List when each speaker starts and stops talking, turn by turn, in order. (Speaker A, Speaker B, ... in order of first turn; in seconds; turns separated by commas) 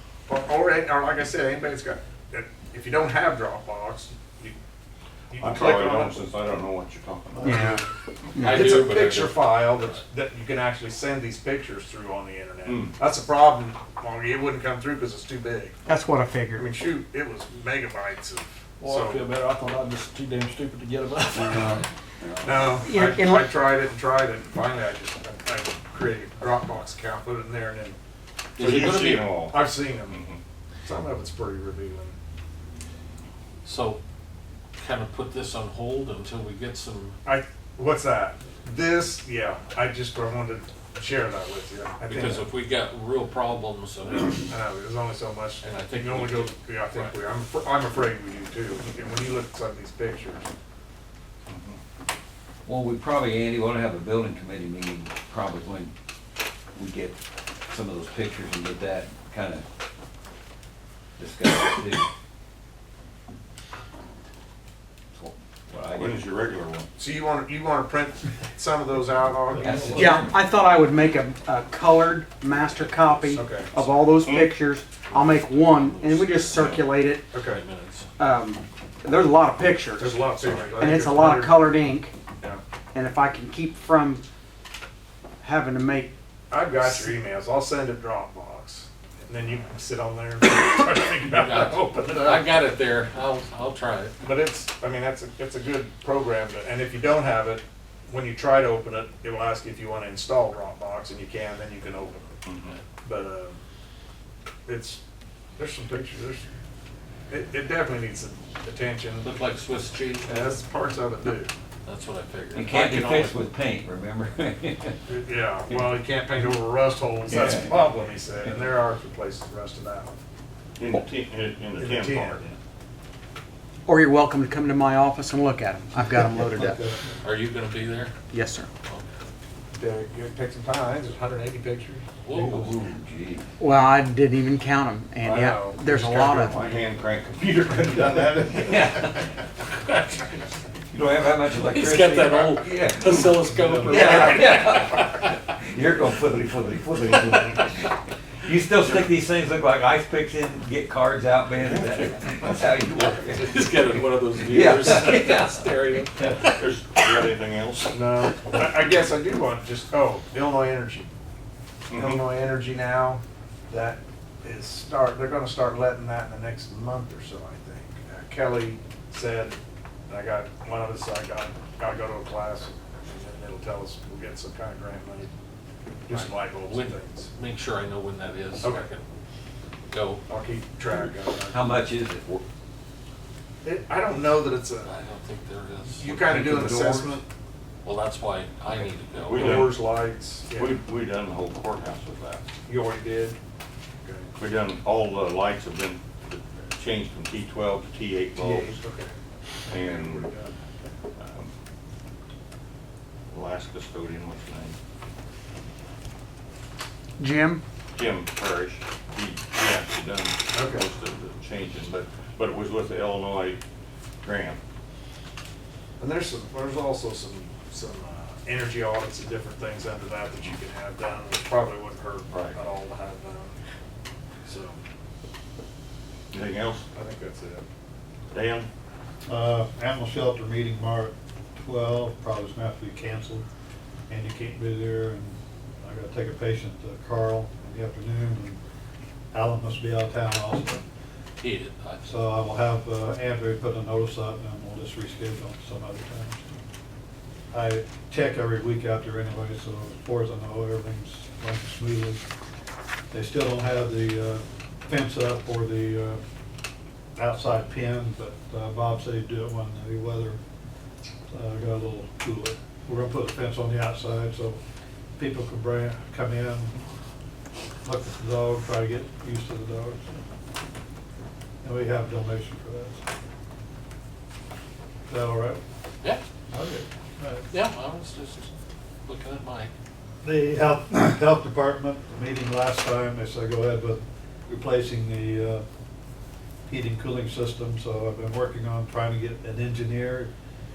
Speaker A: 0.3-4.6, Speaker A: 5.3-6.2, Speaker B: 5.4-7.8, Speaker C: 7.4-8.7, Speaker D: 8.4-10.0, Speaker A: 8.4-15.8, Speaker B: 12.7-13.0, Speaker C: 15.8-16.7, Speaker A: 16.6-19.3, Speaker E: 18.9-21.8, Speaker A: 22.4-28.0, Speaker C: 22.8-23.5, Speaker D: 28.6-29.3, Speaker B: 28.6-30.4, Speaker A: 28.8-30.2, Speaker A: 30.8-32.2, Speaker D: 33.6-34.0, Speaker D: 34.8-37.2, Speaker A: 37.2-42.5, Speaker D: 42.1-44.5, Speaker A: 44.5-50.5, Speaker D: 45.6-47.2, Speaker B: 51.5-51.8, Speaker F: 52.7-55.9, Speaker F: 56.8-59.6, Speaker F: 61.2-62.1, Speaker F: 65.1-66.2, Speaker B: 65.9-66.9, Speaker A: 67.0-70.2, Speaker F: 69.6-70.4, Speaker C: 69.9-77.3, Speaker A: 73.3-73.7, Speaker B: 74.2-74.5, Speaker D: 75.1-76.8, Speaker A: 77.3-77.6, Speaker D: 77.4-78.1, Speaker C: 78.2-82.2, Speaker A: 80.0-81.8, Speaker C: 82.9-84.2, Speaker C: 85.4-86.1, Speaker A: 86.5-92.6, Speaker D: 91.3-94.2, Speaker A: 94.2-102.3, Speaker B: 102.5-102.8, Speaker A: 103.0-103.6, Speaker A: 104.7-105.0, Speaker A: 105.6-106.5, Speaker A: 107.3-109.3, Speaker D: 109.2-110.5, Speaker A: 110.2-111.5, Speaker D: 111.8-113.4, Speaker F: 112.5-115.0, Speaker A: 115.1-120.2, Speaker F: 117.3-117.7, Speaker B: 120.8-122.5, Speaker A: 121.8-122.5, Speaker C: 123.9-126.8, Speaker G: 126.4-127.0, Speaker D: 127.2-128.1, Speaker C: 128.3-128.7, Speaker A: 129.7-132.1, Speaker D: 132.2-132.8, Speaker F: 132.3-133.5, Speaker C: 133.6-136.6, Speaker A: 135.2-135.8, Speaker B: 135.9-139.0, Speaker F: 138.5-139.2, Speaker F: 140.9-142.9, Speaker D: 141.6-145.1, Speaker G: 143.3-144.2, Speaker F: 143.8-153.6, Speaker B: 151.7-152.0, Speaker D: 153.3-156.3, Speaker F: 154.4-155.7, Speaker B: 156.3-158.0, Speaker A: 157.9-161.1, Speaker B: 161.9-162.2, Speaker A: 161.9-169.6, Speaker A: 170.1-175.3, Speaker A: 176.1-177.3, Speaker D: 176.1-179.1, Speaker D: 179.9-180.2, Speaker A: 180.3-181.7, Speaker F: 181.5-182.4, Speaker A: 183.6-184.9, Speaker D: 184.8-186.6, Speaker A: 185.9-187.2, Speaker F: 186.4-187.0, Speaker D: 187.8-189.7, Speaker B: 189.2-189.9, Speaker A: 189.3-190.7, Speaker B: 190.5-192.5, Speaker A: 192.7-193.4, Speaker A: 194.1-194.3, Speaker B: 194.4-198.7, Speaker A: 198.4-199.2, Speaker A: 199.7-200.6, Speaker B: 199.7-200.3, Speaker B: 201.2-201.5, Speaker B: 203.3-204.8, Speaker C: 207.2-207.6, Speaker B: 207.9-213.6, Speaker A: 210.5-210.9, Speaker B: 214.2-214.6, Speaker A: 216.0-223.6, Speaker A: 224.5-224.8, Speaker B: 226.3-226.8, Speaker A: 226.9-227.7, Speaker B: 228.3-228.7, Speaker G: 229.3-233.4, Speaker G: 234.1-238.6, Speaker G: 239.3-240.8, Speaker D: 241.4-242.1, Speaker G: 242.0-246.6, Speaker G: 247.5-252.2, Speaker G: 253.1-256.2, Speaker G: 257.2-260.4, Speaker G: 261.3-264.6, Speaker G: 265.2-266.8, Speaker G: 267.8-270.2, Speaker G: 271.6-273.1, Speaker G: 275.1-275.6, Speaker G: 276.5-277.5, Speaker D: 277.5-278.5, Speaker D: 279.1-279.7, Speaker G: 280.2-285.6, Speaker G: 286.7-290.3